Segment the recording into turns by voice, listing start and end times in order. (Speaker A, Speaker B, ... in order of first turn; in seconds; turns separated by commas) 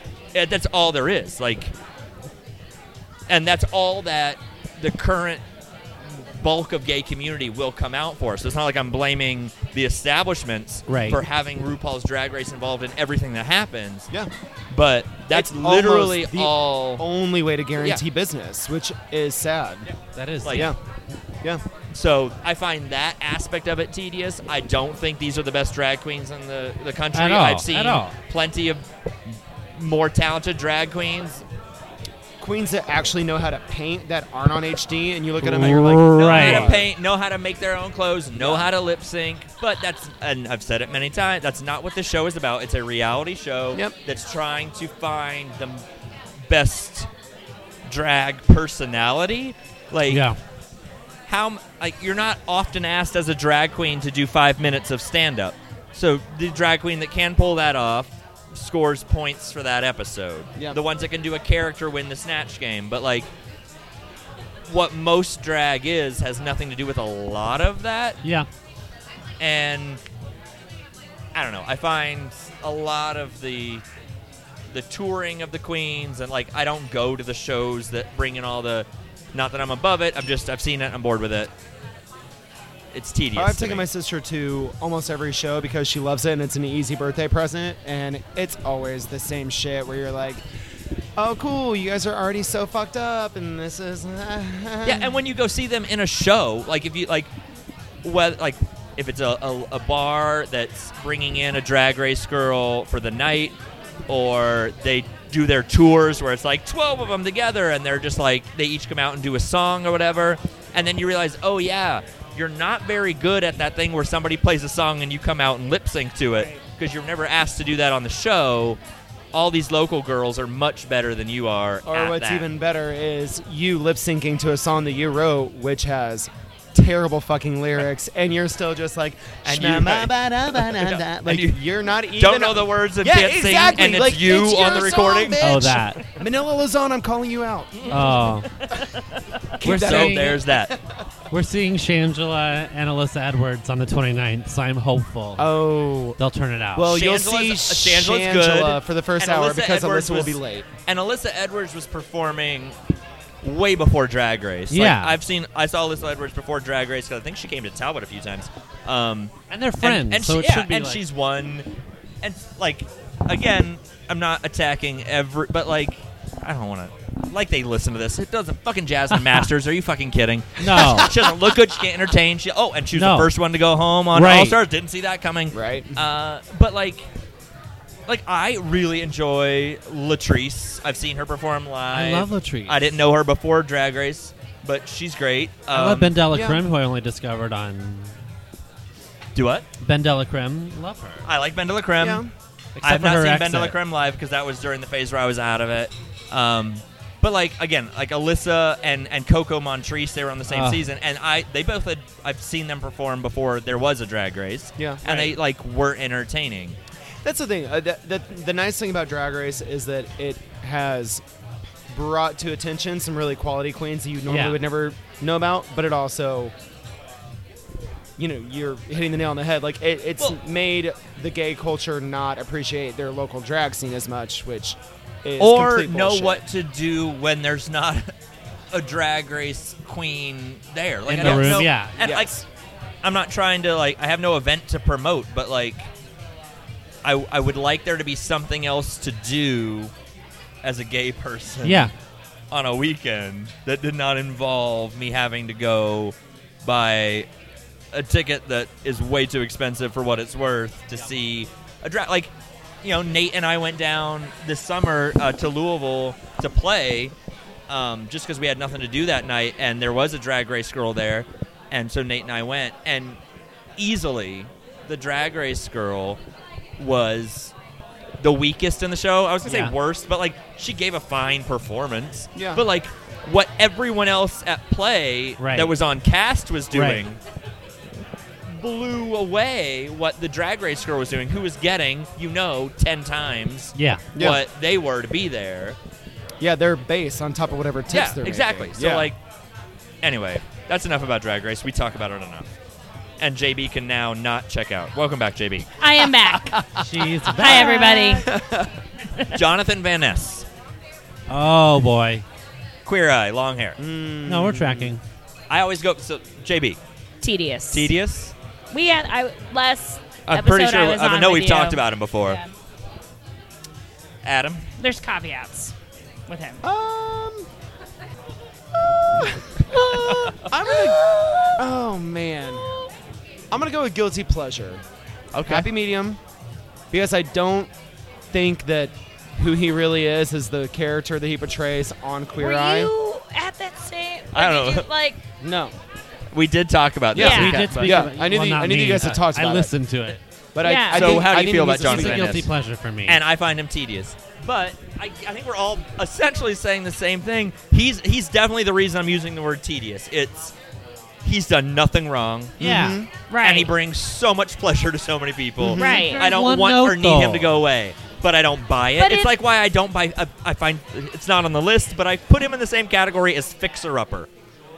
Speaker A: 0.3-1.7, Speaker A: 3.3-5.4, Speaker A: 6.1-14.1, Speaker B: 10.9-11.2, Speaker A: 14.7-17.1, Speaker C: 15.3-19.9, Speaker B: 20.1-20.7, Speaker A: 20.4-20.7, Speaker C: 20.5-20.8, Speaker A: 21.9-28.8, Speaker B: 27.1-28.1, Speaker A: 29.8-31.4, Speaker C: 32.4-36.9, Speaker B: 35.4-36.7, Speaker A: 36.1-45.8, Speaker C: 38.4-38.7, Speaker A: 46.4-47.1, Speaker A: 47.9-50.3, Speaker B: 50.1-50.4, Speaker A: 51.3-63.3, Speaker A: 64.7-68.2, Speaker A: 69.4-70.0, Speaker A: 71.3-73.8, Speaker A: 74.7-81.5, Speaker A: 82.9-83.9, Speaker C: 83.3-90.4, Speaker C: 91.2-95.2, Speaker A: 94.8-97.3, Speaker A: 98.0-103.6, Speaker A: 104.1-118.8, Speaker A: 119.3-122.5, Speaker C: 121.9-138.2, Speaker A: 129.4-131.6, Speaker A: 132.2-136.1, Speaker B: 135.4-136.0, Speaker A: 137.7-140.8, Speaker B: 137.9-138.5, Speaker C: 139.6-140.9, Speaker B: 139.6-140.4, Speaker B: 141.3-145.6, Speaker C: 145.4-146.2, Speaker B: 146.2-146.9, Speaker C: 146.8-150.7, Speaker A: 146.9-152.8, Speaker A: 153.4-161.7, Speaker B: 154.7-155.2, Speaker B: 159.5-161.0, Speaker A: 162.2-177.1, Speaker B: 169.2-169.4, Speaker B: 170.6-171.1, Speaker C: 170.8-171.3, Speaker B: 172.9-173.3, Speaker B: 174.1-174.6, Speaker C: 175.5-176.0, Speaker A: 178.1-186.2, Speaker B: 181.9-182.8, Speaker B: 185.7-188.2, Speaker C: 186.3-186.6, Speaker A: 189.3-189.7, Speaker B: 189.8-191.3, Speaker A: 191.2-192.2, Speaker C: 192.0-192.3, Speaker B: 192.8-193.8, Speaker A: 192.8-206.8, Speaker B: 200.5-200.8, Speaker C: 204.8-205.4, Speaker C: 207.2-211.2, Speaker C: 211.9-216.5, Speaker B: 214.3-214.6, Speaker C: 218.2-226.4, Speaker A: 225.4-228.1, Speaker A: 228.7-232.4, Speaker B: 231.1-232.0, Speaker C: 231.2-232.4, Speaker A: 233.0-235.9, Speaker A: 237.0-239.9, Speaker A: 240.6-241.9, Speaker B: 241.6-241.9, Speaker A: 242.5-247.3, Speaker A: 247.9-252.3, Speaker A: 252.8-257.1, Speaker A: 257.7-263.2, Speaker A: 263.8-266.2, Speaker A: 266.8-267.5, Speaker A: 268.2-277.2, Speaker B: 269.4-269.7, Speaker C: 272.4-272.6, Speaker B: 275.4-275.7, Speaker B: 276.7-277.0, Speaker A: 278.5-285.8, Speaker B: 283.8-284.0, Speaker C: 284.1-284.4, Speaker C: 286.4-289.1, Speaker A: 287.9-289.2, Speaker A: 290.0-292.5, Speaker A: 293.2-295.7, Speaker D: 295.8-296.6, Speaker C: 296.6-296.8, Speaker B: 296.8-297.9, Speaker D: 297.3-298.3, Speaker A: 297.4-298.0, Speaker C: 298.1-298.7, Speaker A: 299.3-300.5, Speaker B: 301.3-302.2, Speaker A: 302.9-303.8, Speaker C: 303.8-304.9, Speaker B: 304.3-305.0, Speaker A: 305.5-306.8, Speaker D: 307.2-307.9, Speaker A: 307.7-308.3, Speaker D: 308.7-312.5, Speaker A: 310.3-312.4, Speaker A: 314.2-314.6, Speaker D: 314.8-315.7, Speaker D: 316.3-316.6, Speaker C: 316.6-317.5, Speaker C: 318.8-322.8, Speaker A: 319.7-320.9, Speaker D: 320.7-321.6, Speaker C: 323.5-324.8, Speaker A: 325.3-325.7, Speaker C: 325.4-326.2, Speaker C: 326.9-327.7, Speaker C: 328.3-332.9, Speaker D: 332.4-335.2, Speaker A: 334.3-334.9, Speaker C: 335.4-335.8, Speaker A: 336.3-338.1, Speaker C: 337.1-339.7, Speaker D: 337.1-337.7, Speaker B: 337.2-340.2, Speaker C: 340.6-342.4, Speaker D: 340.6-341.3, Speaker A: 340.9-342.5, Speaker B: 341.7-343.2, Speaker A: 343.1-350.5, Speaker A: 351.2-352.6, Speaker C: 352.6-353.1, Speaker B: 352.6-353.0, Speaker D: 353.3-353.7, Speaker A: 353.4-364.3, Speaker C: 355.6-356.1, Speaker D: 355.8-356.2, Speaker B: 356.1-357.6, Speaker D: 359.0-359.3